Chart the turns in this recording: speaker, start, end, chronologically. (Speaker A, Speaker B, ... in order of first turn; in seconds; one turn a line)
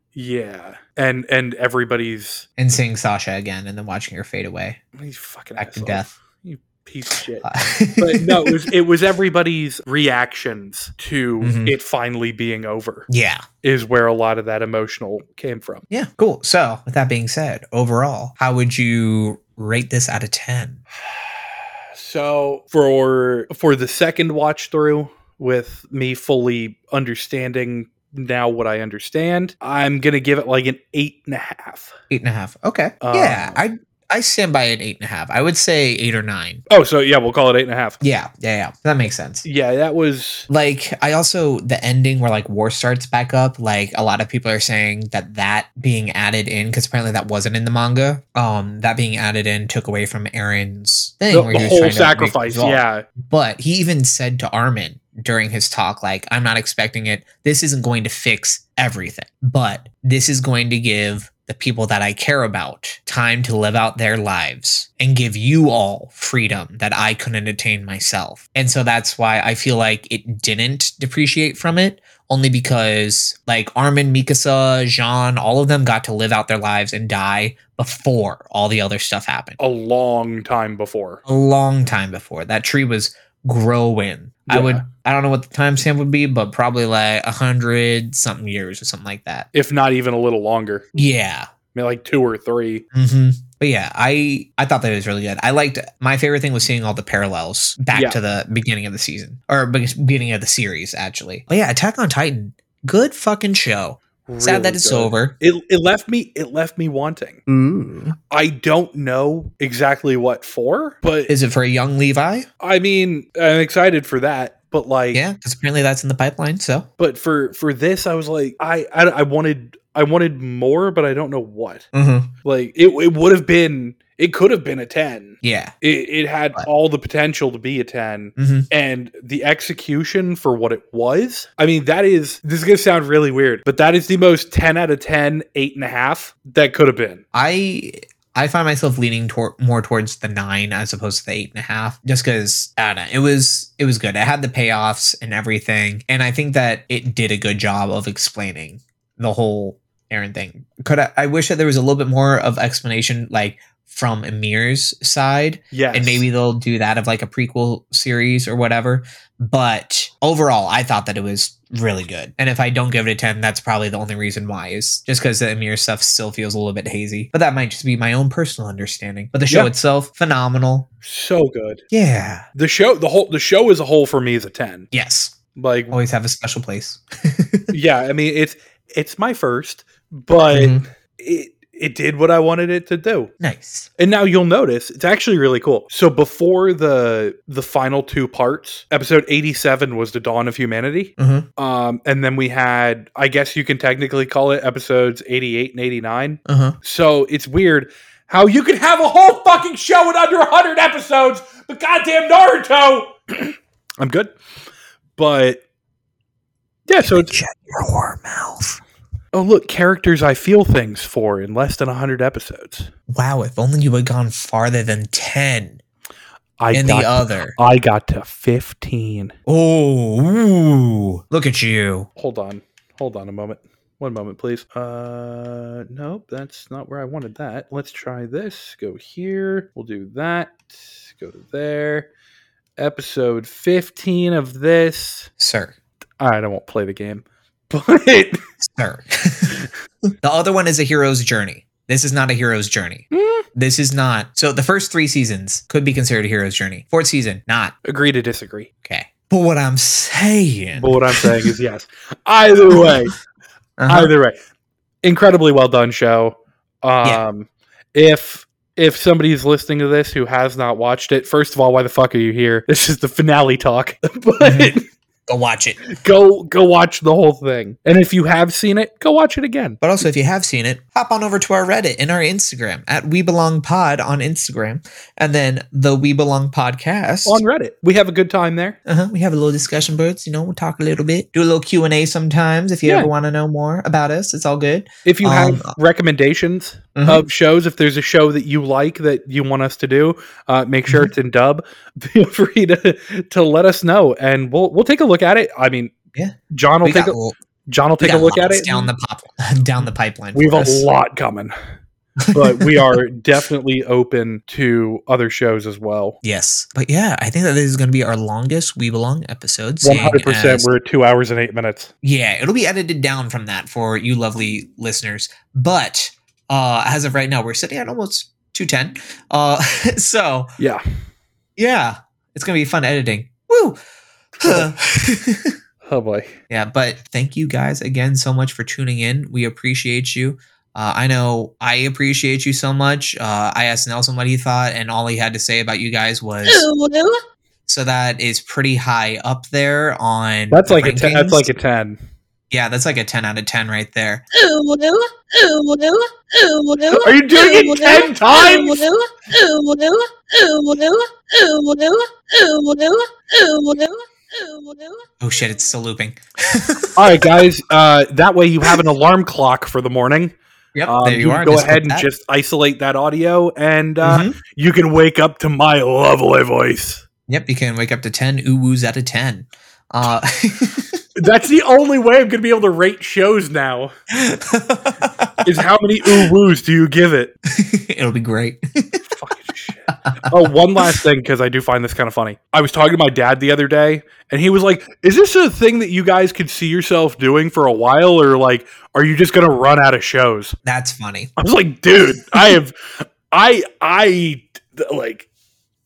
Speaker A: 0.1-2.5
Speaker B: 2.6-4.8
Speaker A: 5.0-13.1
Speaker B: 5.6-6.1
Speaker B: 7.4-8.7
Speaker B: 11.4-11.7
Speaker B: 13.1-13.4
Speaker A: 13.6-15.9
Speaker B: 15.9-20.8
Speaker A: 21.0-32.0
Speaker B: 32.1-36.6
Speaker A: 33.0-33.6
Speaker A: 36.7-38.0
Speaker B: 38.0-39.5
Speaker A: 39.4-40.5
Speaker B: 40.5-79.6
Speaker A: 51.3-53.1
Speaker A: 79.6-81.2
Speaker B: 81.3-89.5
Speaker A: 84.5-84.9
Speaker A: 89.5-90.9
Speaker B: 91.0-91.5
Speaker A: 91.7-92.8
Speaker B: 92.9-105.3
Speaker A: 97.9-98.2
Speaker A: 104.3-107.4
Speaker B: 107.5-108.2
Speaker A: 108.3-111.3
Speaker B: 111.3-112.5
Speaker A: 112.6-115.2
Speaker B: 115.1-116.9
Speaker A: 117.0-121.9
Speaker B: 121.9-122.3
Speaker A: 122.4-137.2
Speaker B: 125.4-125.7
Speaker B: 128.4-128.7
Speaker B: 137.3-170.9
Speaker A: 155.7-156.2
Speaker A: 171.0-171.8
Speaker B: 171.9-172.5
Speaker A: 172.6-174.9
Speaker B: 174.9-175.4
Speaker A: 175.6-176.0
Speaker B: 175.9-177.7
Speaker A: 177.7-183.3
Speaker B: 180.5-180.8
Speaker B: 183.4-183.9
Speaker A: 184.0-204.3
Speaker B: 191.2-191.5
Speaker B: 196.5-196.8
Speaker A: 205.2-205.6
Speaker A: 206.9-207.3
Speaker B: 207.0-208.8
Speaker A: 209.3-212.9
Speaker B: 213.1-215.8
Speaker A: 216.6-219.4
Speaker B: 216.7-217.6
Speaker B: 219.5-222.1
Speaker A: 222.2-232.1
Speaker A: 232.8-235.3
Speaker B: 235.4-235.8
Speaker A: 236.2-238.4
Speaker B: 238.6-239.6
Speaker B: 240.2-247.8
Speaker A: 243.1-243.4
Speaker A: 247.8-248.7
Speaker B: 248.8-251.5
Speaker A: 250.8-253.1
Speaker B: 252.7-252.9
Speaker B: 253.8-254.1
Speaker A: 253.9-254.4
Speaker A: 255.0-264.9
Speaker B: 264.4-265.8
Speaker A: 265.9-269.8
Speaker B: 269.8-277.4
Speaker A: 277.2-278.8
Speaker B: 278.9-285.7
Speaker A: 285.1-295.9
Speaker B: 287.0-287.2
Speaker B: 296.1-297.4
Speaker A: 296.5-297.2
Speaker A: 297.7-298.9
Speaker B: 298.0-300.9
Speaker A: 300.4-301.5
Speaker B: 302.2-303.0
Speaker A: 302.3-306.2
Speaker B: 306.2-310.7
Speaker A: 309.8-311.9
Speaker B: 312.0-320.5
Speaker B: 321.6-323.8
Speaker A: 324.4-324.7
Speaker B: 324.5-325.6
Speaker A: 325.8-326.4
Speaker B: 326.5-336.7
Speaker C: 336.4-337.2
Speaker B: 337.7-341.5
Speaker A: 340.5-342.0
Speaker B: 342.5-344.2
Speaker C: 344.3-355.1
Speaker A: 346.9-348.8
Speaker B: 355.2-357.3
Speaker A: 357.0-360.4
Speaker B: 360.8-362.1
Speaker A: 360.9-367.0
Speaker B: 364.0-364.4
Speaker B: 367.3-371.0
Speaker A: 371.2-373.9
Speaker B: 374.1-375.5
Speaker A: 375.4-377.4
Speaker B: 377.5-379.0
Speaker A: 379.1-390.6
Speaker B: 380.1-380.5
Speaker B: 390.6-391.3
Speaker A: 391.4-395.3